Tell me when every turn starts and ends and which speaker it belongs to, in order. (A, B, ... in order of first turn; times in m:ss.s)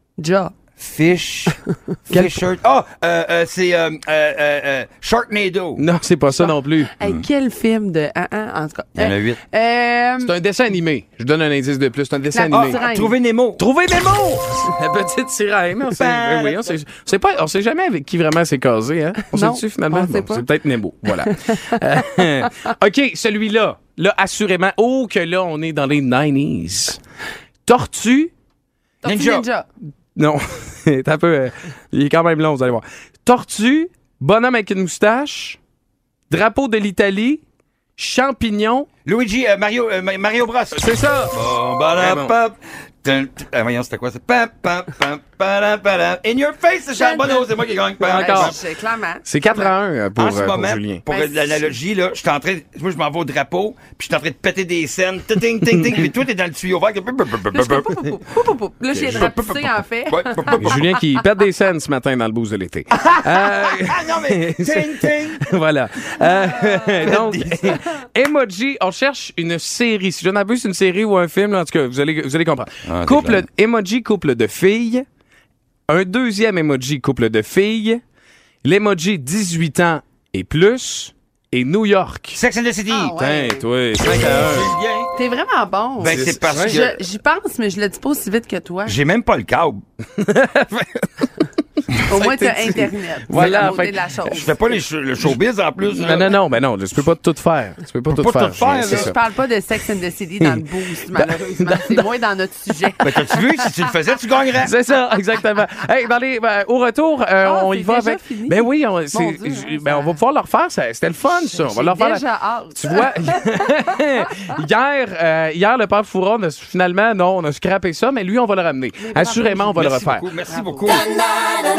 0:00.2-0:00.5 A
0:00.8-0:05.8 B
0:02.1-0:02.4 C
0:05.8-0:06.9 C
0:06.4-0:10.3 A
0:09.0-0:09.4 B
0:10.2-0:12.8 C
0:12.3-0:13.1 A
0:12.5-0:13.6 B
0:13.6-0:27.0 C
0:15.9-0:16.8 B
0:19.3-0:20.4 A
0:27.7-0:28.3 C
0:29.0-0:29.7 A
0:29.0-0:29.5 B
0:30.2-0:35.6 C
0:36.3-0:37.4 C
0:38.0-0:38.9 C
0:39.0-0:48.6 B
0:40.7-0:41.4 C
0:42.0-0:42.3 C
0:47.0-0:47.4 A
0:48.0-0:48.6 C
0:48.2-0:49.7 A
0:49.2-0:51.0 C
0:50.2-0:57.9 B
0:51.1-0:51.6 A
0:55.7-0:56.0 C
0:57.5-1:00.9 A
0:58.9-0:59.4 C
0:59.0-1:00.8 B
1:00.6-1:15.0 C
1:03.0-1:05.5 B
1:07.0-1:07.8 B
1:12.8-1:13.5 B
1:15.9-1:18.0 C
1:18.6-1:22.4 C
1:22.3-1:23.1 B
1:22.9-1:23.6 A
1:23.2-1:24.7 C
1:24.0-1:25.1 B
1:25.1-1:29.0 A
1:26.0-1:27.0 B
1:26.0-1:26.8 C
1:28.9-1:29.8 B
1:30.2-1:31.3 C
1:32.1-1:34.7 A
1:32.1-1:34.0 C
1:34.3-1:36.4 B
1:35.9-1:39.2 C
1:38.1-1:39.2 B
1:38.9-1:43.7 A
1:40.4-1:40.6 C
1:41.2-1:42.1 C
1:43.0-1:44.7 B
1:44.6-1:52.2 C
1:47.4-1:50.2 A
1:51.3-1:53.3 A
1:52.8-2:00.3 C
1:59.0-1:59.8 A
1:59.8-2:01.1 B
2:00.5-2:00.9 A